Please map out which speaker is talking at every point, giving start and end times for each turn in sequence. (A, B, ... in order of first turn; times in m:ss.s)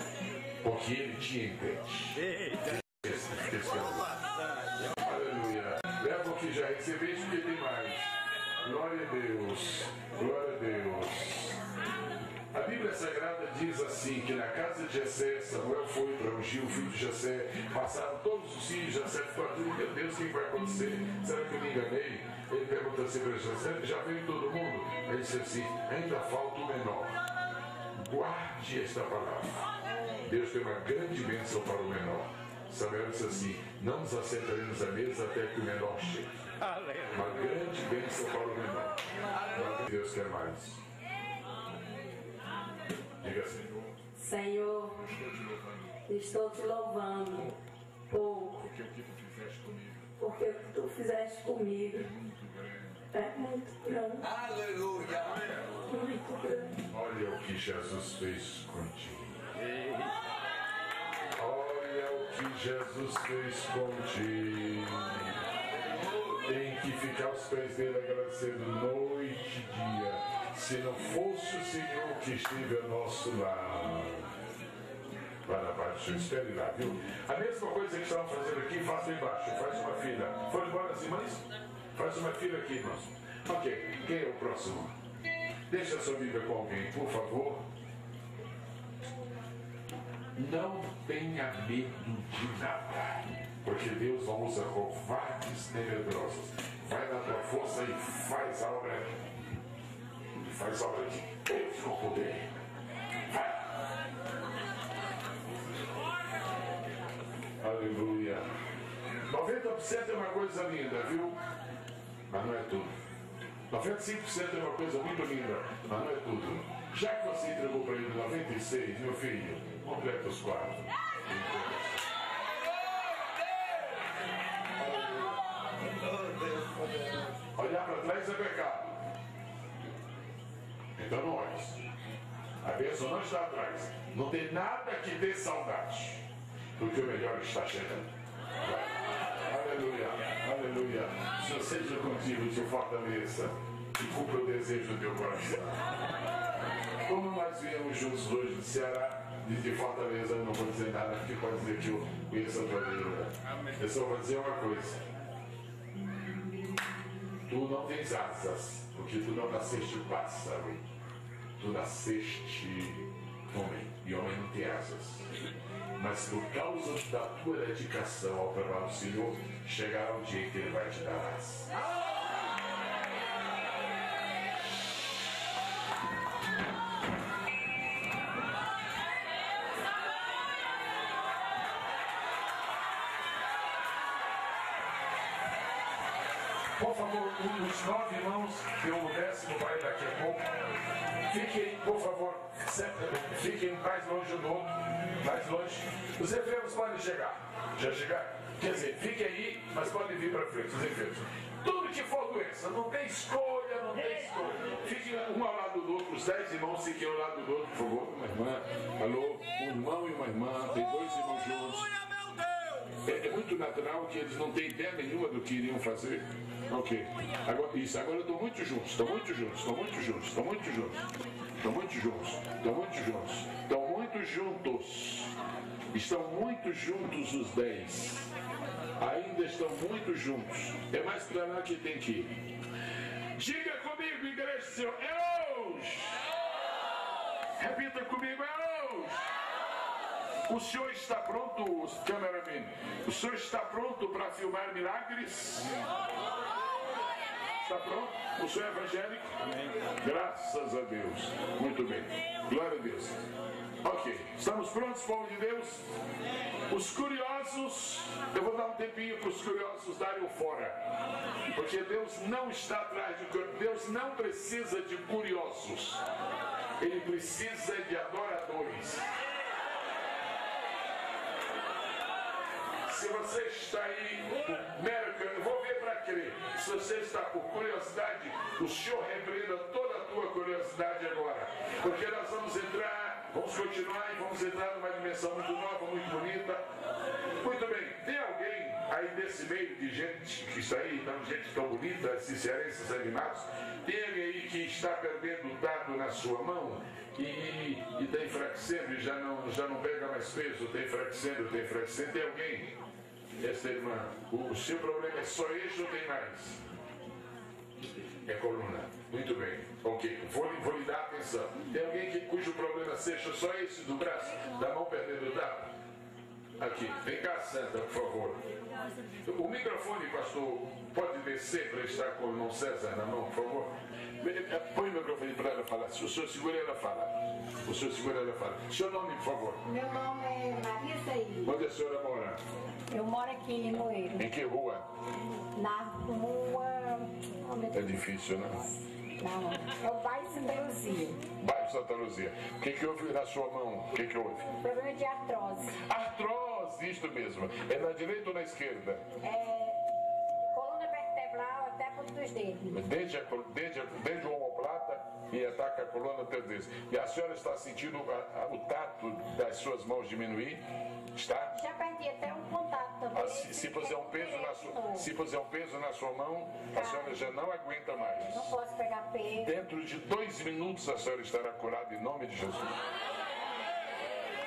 0:00.6-0:04.1 A
0:04.8-0:11.6 A
0:12.5-0:27.1 A
0:28.0-0:29.6 A
0:30.2-0:36.3 A
0:37.1-0:40.8 A
0:43.2-0:43.9 A
0:44.2-0:45.0 B
0:44.9-0:45.8 A
0:46.1-0:47.5 B
0:48.1-0:48.6 B
0:48.5-0:50.1 A
0:50.2-0:52.1 B
0:52.0-0:53.0 A
0:53.1-0:54.3 B
0:55.9-0:56.8 B
0:56.9-0:59.5 A
1:01.4-1:05.3 A
1:06.4-1:14.3 A
1:15.4-1:24.9 A
1:25.7-1:27.6 A
1:30.3-1:39.2 A
1:40.3-1:42.5 A
1:43.3-1:43.6 A
1:47.6-1:48.5 A
1:49.3-1:51.4 A
1:52.3-1:52.9 A
1:53.7-2:02.0 A
2:04.8-2:05.3 A
2:07.5-2:09.0 A
2:11.0-2:11.8 A
2:12.6-2:16.2 A
2:16.8-2:25.8 A
2:27.0-2:35.0 A
2:37.4-2:40.8 A
2:41.6-2:45.3 A
2:46.0-2:51.7 A
3:06.8-3:10.6 A
3:11.3-3:31.9 A
3:33.0-3:41.0 A
3:41.6-3:45.3 A
3:45.9-3:48.3 A
3:49.0-3:52.4 A
3:53.3-3:56.2 A
3:57.6-3:59.2 A
4:00.5-4:05.8 A
4:07.6-4:09.4 A
4:10.0-4:13.2 A
4:13.8-4:15.9 A
4:16.7-4:20.8 A
4:21.5-4:26.0 A
4:26.8-4:29.0 A
4:32.9-4:46.6 A
4:47.4-5:02.7 A
5:03.4-5:06.6 A
5:08.2-5:15.7 A
5:16.6-5:18.4 A
5:19.2-5:29.6 A
5:29.6-5:31.5 C
5:31.4-5:32.4 A
5:32.9-5:34.2 C
5:34.1-5:34.8 A
5:35.5-5:37.9 C
5:37.7-5:38.6 A
5:39.2-5:41.2 C
5:41.4-5:44.5 A
5:44.6-5:45.7 C
5:45.8-5:49.0 A
5:49.2-5:49.8 C
5:50.5-5:52.8 C
5:52.7-6:01.6 A
6:01.5-6:05.0 C
6:03.1-6:08.5 A
6:06.8-6:07.2 C
6:08.2-6:09.5 C
6:09.4-6:12.8 A